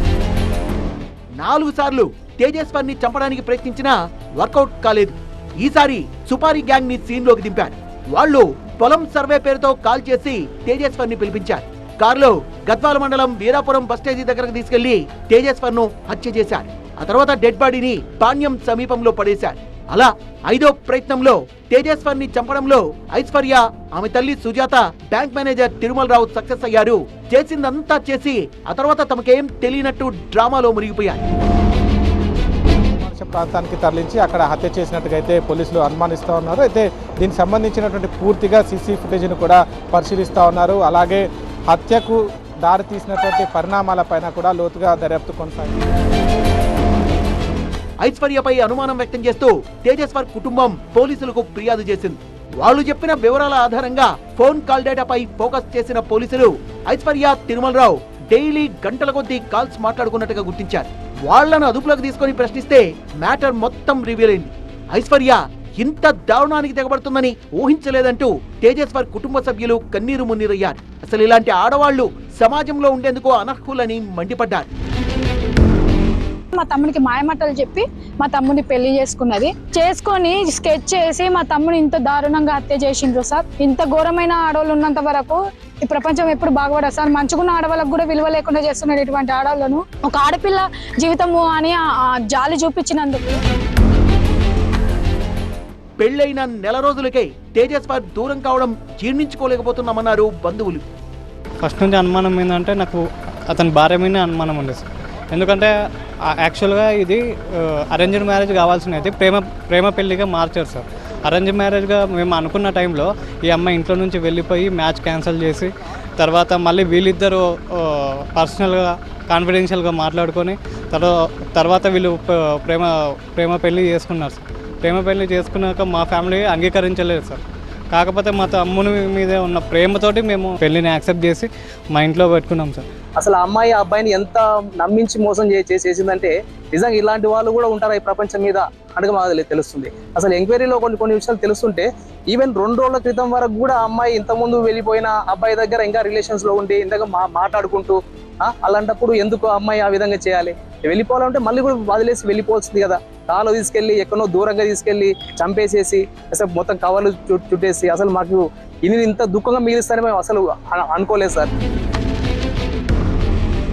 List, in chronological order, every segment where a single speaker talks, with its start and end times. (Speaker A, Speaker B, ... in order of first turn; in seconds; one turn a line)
Speaker A: 1.4-31.2
Speaker B: 33.0-45.8
Speaker A: 48.0-74.7
Speaker C: 76.5-93.4
Speaker A: 96.0-100.8
Speaker D: 101.6-105.7
Speaker D: 106.4-132.8
Speaker E: 133.2-161.5